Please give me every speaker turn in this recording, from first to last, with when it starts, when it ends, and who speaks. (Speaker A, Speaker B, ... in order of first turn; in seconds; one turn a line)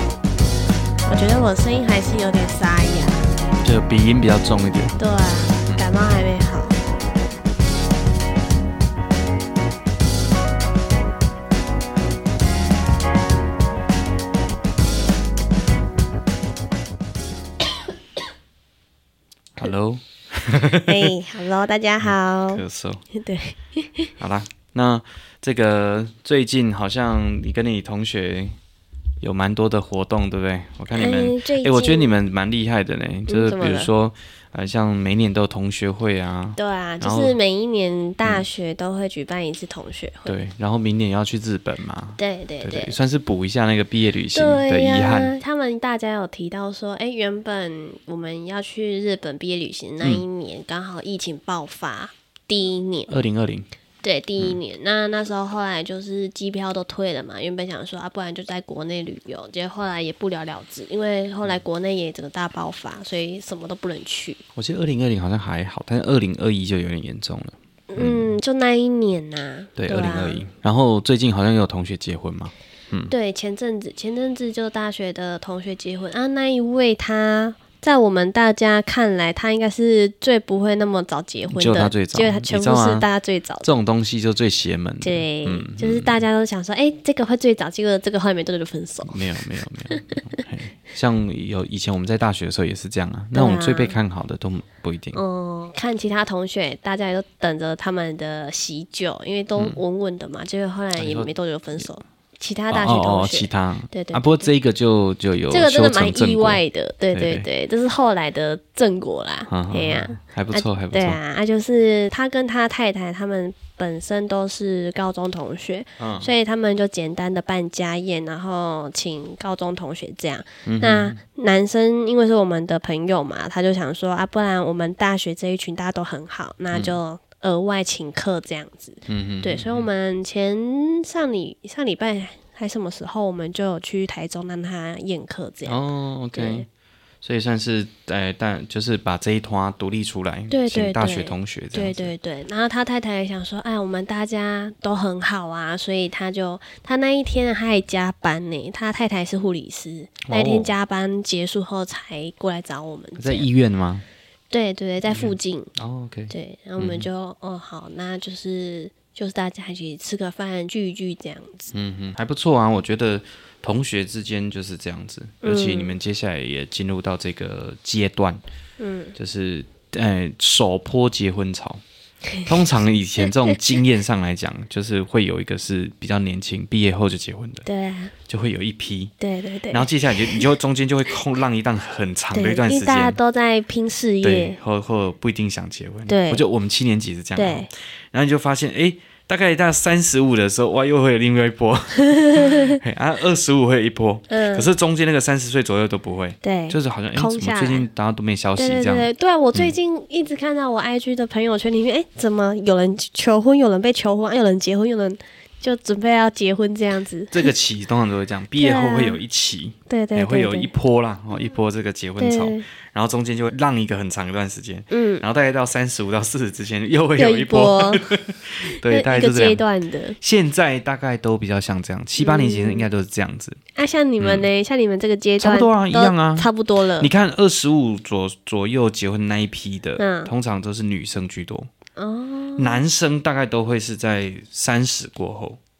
Speaker A: 1.1-3.3
Speaker B: 3.6-5.0
Speaker A: 5.0-6.8
Speaker B: 19.6-21.1
Speaker A: 20.9-22.6
Speaker B: 22.0-23.0
Speaker A: 23.1-24.1
Speaker B: 24.2-28.6
Speaker B: 29.2-37.4
Speaker A: 30.9-32.1
Speaker A: 33.3-33.9
Speaker A: 36.5-40.3
Speaker B: 40.2-45.3
Speaker A: 42.2-42.9
Speaker A: 44.3-53.1
Speaker B: 53.1-53.7
Speaker A: 54.0-64.4
Speaker B: 64.5-68.3
Speaker A: 67.9-70.4
Speaker B: 69.8-73.1
Speaker A: 73.1-83.7
Speaker B: 81.5-83.0
Speaker B: 83.6-86.2
Speaker A: 85.0-89.2
Speaker B: 89.1-95.2
Speaker A: 89.9-90.2
Speaker A: 93.3-94.0
Speaker A: 95.1-104.5
Speaker B: 101.0-101.8
Speaker B: 102.7-106.6
Speaker A: 105.5-135.8
Speaker B: 107.1-107.5
Speaker B: 109.5-111.2
Speaker B: 116.0-116.3
Speaker B: 120.6-121.2
Speaker B: 126.7-127.0
Speaker B: 129.1-129.9
Speaker B: 135.7-136.7
Speaker A: 136.3-136.7
Speaker B: 137.2-142.1
Speaker A: 140.5-153.5
Speaker B: 150.3-150.7
Speaker B: 153.2-154.0
Speaker A: 154.5-155.7
Speaker B: 155.1-157.1
Speaker A: 156.3-161.7
Speaker B: 161.7-168.4
Speaker A: 165.4-165.9
Speaker A: 168.8-169.1
Speaker B: 169.2-171.8
Speaker B: 172.4-177.6
Speaker A: 177.6-178.1
Speaker B: 178.3-179.1
Speaker A: 179.2-180.4
Speaker B: 179.7-183.2
Speaker A: 182.3-184.6
Speaker B: 184.2-199.7
Speaker A: 186.1-186.4
Speaker A: 187.3-187.7
Speaker A: 192.0-192.8
Speaker A: 194.3-194.7
Speaker A: 196.4-197.9
Speaker A: 198.6-207.5
Speaker B: 207.3-219.6
Speaker A: 208.6-209.2
Speaker A: 209.9-210.7
Speaker A: 212.2-212.6
Speaker A: 214.9-215.2
Speaker A: 217.2-218.0
Speaker A: 218.8-220.2
Speaker B: 220.2-223.6
Speaker A: 222.2-222.9
Speaker A: 223.7-227.1
Speaker B: 224.2-224.5
Speaker B: 225.4-231.7
Speaker A: 230.0-230.3
Speaker A: 232.0-232.8
Speaker B: 232.6-235.6